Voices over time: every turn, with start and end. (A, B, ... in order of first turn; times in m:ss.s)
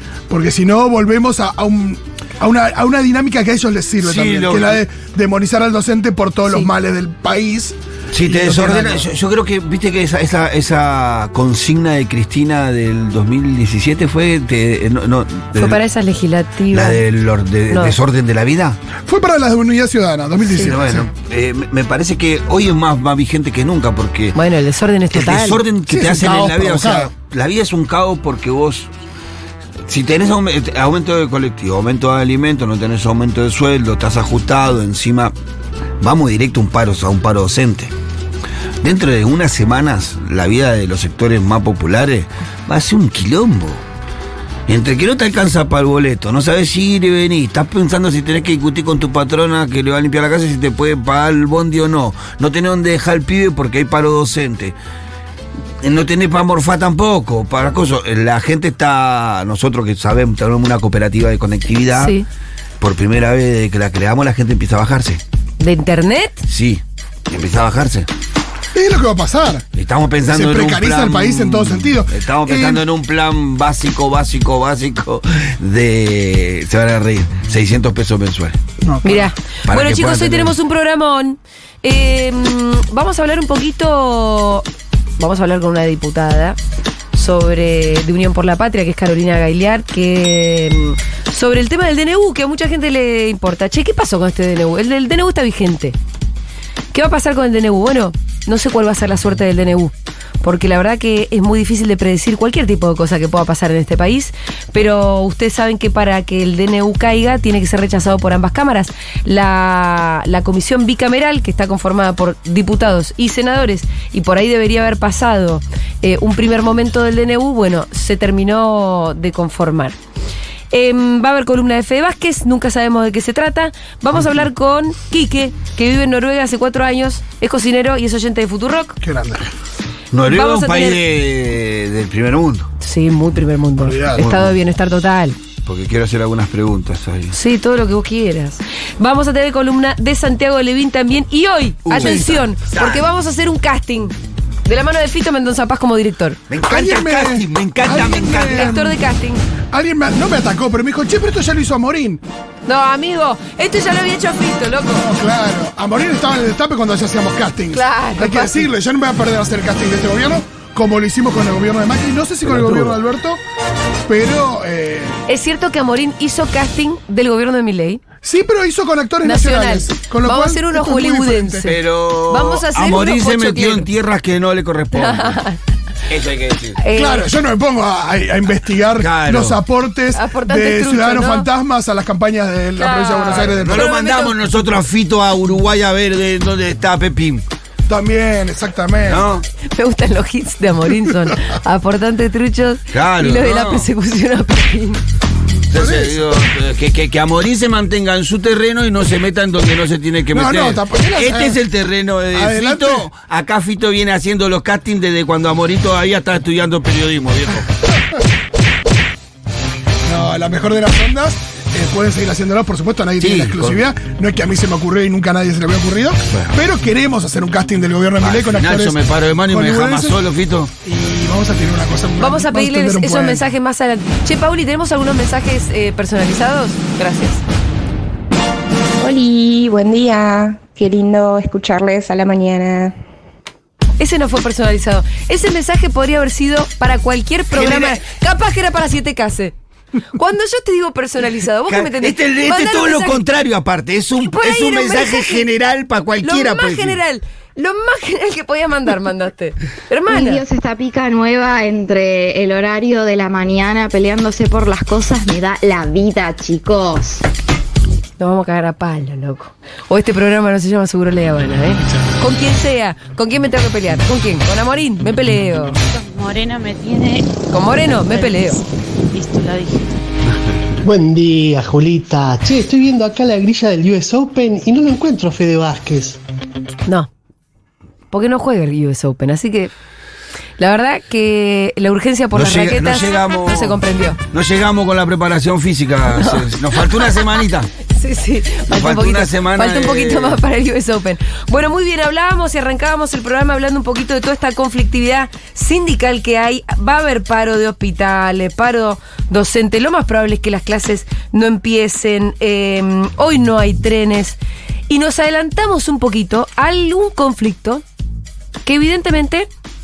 0:00.3-0:09.1 A
0:04.0-0:04.8 B
0:08.1-0:15.8 B
0:15.6-0:17.0 C
0:16.7-0:18.8 B
0:17.7-0:18.0 C
0:19.1-0:21.1 A
0:20.5-0:24.4 B
0:24.3-0:25.6 C
0:25.1-0:28.9 B
0:25.9-0:27.1 A
0:29.9-0:35.3 B
0:36.0-0:37.9 B
0:38.8-0:43.8 B
0:44.7-0:54.8 B
0:55.8-1:02.2 B
1:01.9-1:02.2 C
1:02.8-1:05.2 B
1:05.6-1:06.4 C
1:06.5-1:08.1 B
1:08.7-1:09.6 A
1:09.7-1:18.6 B
1:10.3-1:12.8 A
1:18.8-1:19.3 A
1:19.0-1:24.6 C
1:19.7-1:20.5 B
1:25.2-1:26.6 C
1:27.1-1:36.0 C
1:36.9-1:59.9 C
2:00.7-2:09.0 C
2:09.0-2:09.5 A
2:10.1-2:12.7 B
2:10.2-2:11.0 C
2:12.8-2:15.4 C
2:13.8-2:14.3 A
2:14.2-2:14.6 B
2:15.6-2:17.3 B
2:17.3-2:26.4 C
2:21.8-2:23.0 B
2:21.9-2:22.3 A
2:26.5-2:28.8 B
2:26.6-2:29.0 A
2:28.5-2:29.4 C
2:29.7-2:32.2 A
2:32.6-2:35.0 C
2:35.0-2:43.4 A
2:37.7-2:38.7 C
2:42.5-2:43.0 B
2:44.1-2:45.1 A
2:45.3-2:48.0 C
2:48.2-2:51.7 A
2:49.2-2:53.9 C
2:51.6-2:55.4 B
2:54.9-2:55.6 C
2:56.1-2:56.8 B
2:56.8-2:57.3 C
2:56.9-3:03.9 A
2:59.0-2:59.6 B
3:00.1-3:01.5 C
3:02.8-3:04.4 C
3:03.2-3:07.4 B
3:07.9-3:09.3 A
3:09.0-3:09.4 B
3:09.7-3:15.0 C
3:12.9-3:13.9 B
3:15.7-3:27.8 B
3:15.7-3:16.2 A
3:20.3-3:21.6 A
3:22.3-3:23.1 A
3:30.0-3:40.2 A
3:33.2-3:33.8 B
3:36.3-3:36.6 B
3:38.2-3:40.7 B
3:40.8-3:43.5 A
3:42.2-3:47.4 C
3:49.0-3:53.0 D
3:54.0-3:59.5 C
3:57.5-3:58.0 B
4:00.1-4:03.2 C
4:01.7-4:07.0 B
4:04.2-4:05.5 C
4:06.2-4:10.4 C
4:10.1-4:17.2 E
4:18.2-4:25.8 C
4:25.9-4:27.3 F
4:27.5-4:28.6 C
4:28.0-4:28.6 F
4:29.1-4:29.9 F
4:30.8-4:36.2 G
4:38.1-4:39.7 C
4:40.6-4:44.2 C
4:42.3-4:47.7 B
4:46.1-5:04.4 C
4:48.7-4:50.4 B
5:04.9-5:07.8 C
5:08.6-5:09.5 C